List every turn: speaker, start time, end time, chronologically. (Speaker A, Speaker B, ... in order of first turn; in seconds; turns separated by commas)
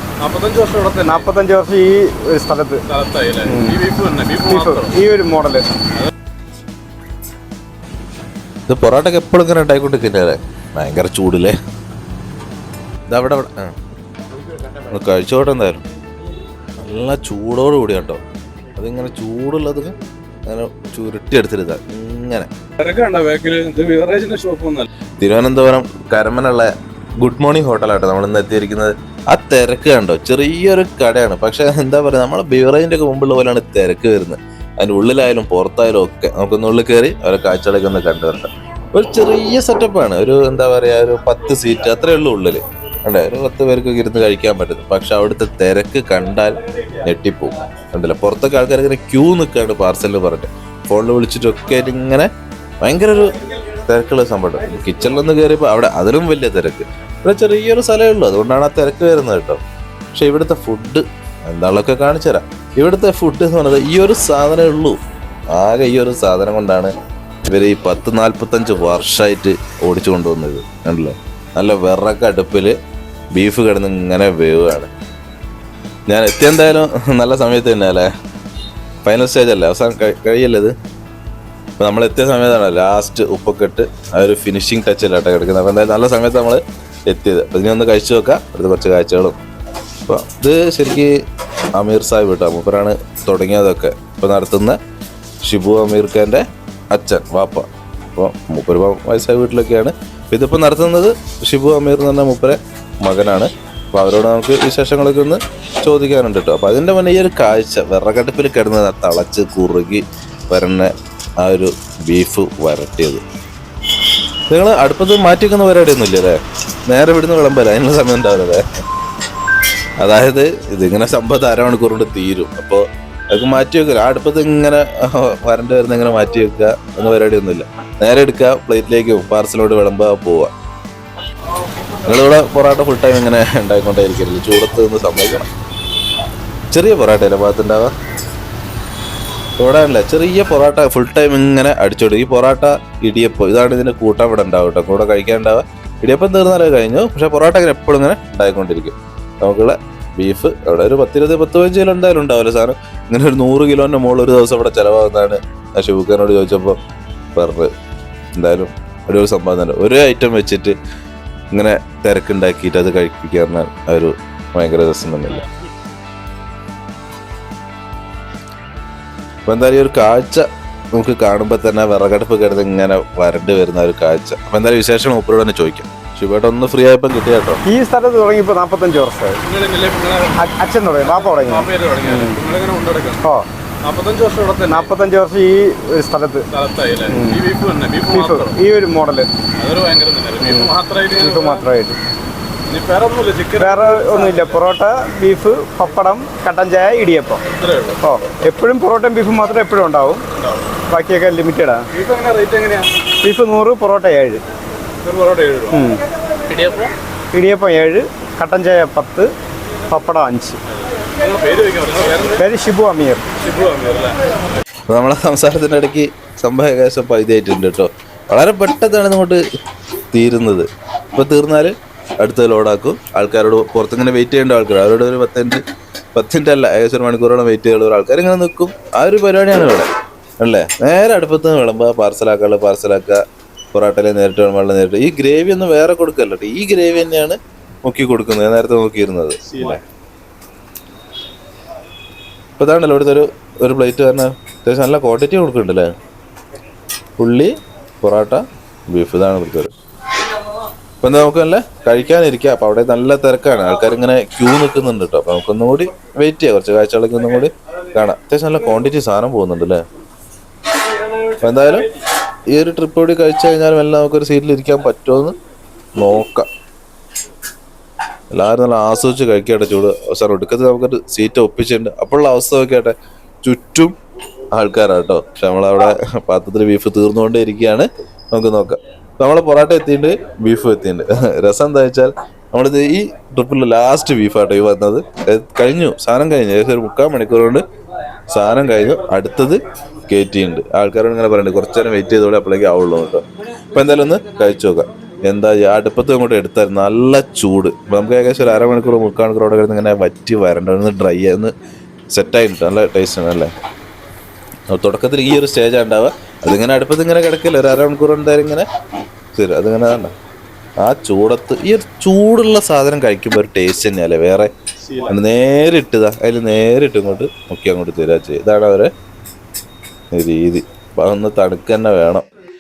Speaker A: 0.2-1.3, Speaker B: 1.0-2.8, Speaker A: 2.9-5.0, Speaker B: 3.4-3.8, Speaker B: 4.5-5.7, Speaker C: 8.7-11.6, Speaker C: 13.1-13.8, Speaker C: 14.9-15.8, Speaker C: 16.9-18.2, Speaker C: 18.8-20.0, Speaker C: 20.5-22.5, Speaker A: 22.8-24.9, Speaker C: 25.2-52.3, Speaker C: 52.8-59.6, Speaker C: 60.1-65.0, Speaker C: 65.5-66.9, Speaker C: 67.5-72.8, Speaker C: 73.3-74.9, Speaker C: 76.1-78.1, Speaker C: 79.0-80.7, Speaker C: 81.8-89.4, Speaker C: 90.1-91.1, Speaker C: 91.8-94.8, Speaker C: 95.4-113.2, Speaker C: 114.5-118.7, Speaker C: 120.0-130.5, Speaker C: 132.0-135.5, Speaker C: 136.7-137.9, Speaker C: 139.6-156.8, Speaker C: 157.4-157.7, Speaker C: 158.4-160.8, Speaker C: 161.5-165.5, Speaker C: 169.5-177.6, Speaker B: 177.7-179.4, Speaker A: 179.4-180.3, Speaker B: 180.4-182.4, Speaker A: 181.0-183.2, Speaker A: 183.8-184.9, Speaker B: 184.7-186.5, Speaker A: 186.5-188.6, Speaker B: 187.1-187.4, Speaker B: 188.1-189.3, Speaker A: 189.6-191.7, Speaker B: 190.4-192.0, Speaker A: 192.7-194.6, Speaker B: 193.6-197.4, Speaker A: 197.5-198.0, Speaker B: 198.0-200.2, Speaker A: 200.4-200.6, Speaker B: 200.9-201.8, Speaker A: 201.9-202.9, Speaker B: 203.2-204.4, Speaker A: 205.0-205.8, Speaker B: 205.7-206.0, Speaker A: 206.5-206.9, Speaker B: 207.3-209.3, Speaker B: 209.9-210.6, Speaker A: 211.0-212.4, Speaker B: 212.3-213.2, Speaker A: 213.4-214.3, Speaker C: 214.9-219.4, Speaker C: 220.1-225.6, Speaker C: 226.2-233.2, Speaker C: 233.7-239.8, Speaker A: 239.4-239.8, Speaker C: 242.6-245.9, Speaker C: 247.2-249.7, Speaker C: 251.0-259.8, Speaker C: 261.4-261.9, Speaker C: 262.5-265.4, Speaker C: 266.0-266.5, Speaker C: 268.3-273.9, Speaker C: 274.5-287.6, Speaker C: 288.3-301.5, Speaker C: 302.1-303.5, Speaker C: 304.7-308.7, Speaker C: 309.4-310.1, Speaker C: 310.8-314.5, Speaker A: 314.8-315.2, Speaker C: 315.1-318.9, Speaker C: 320.1-322.2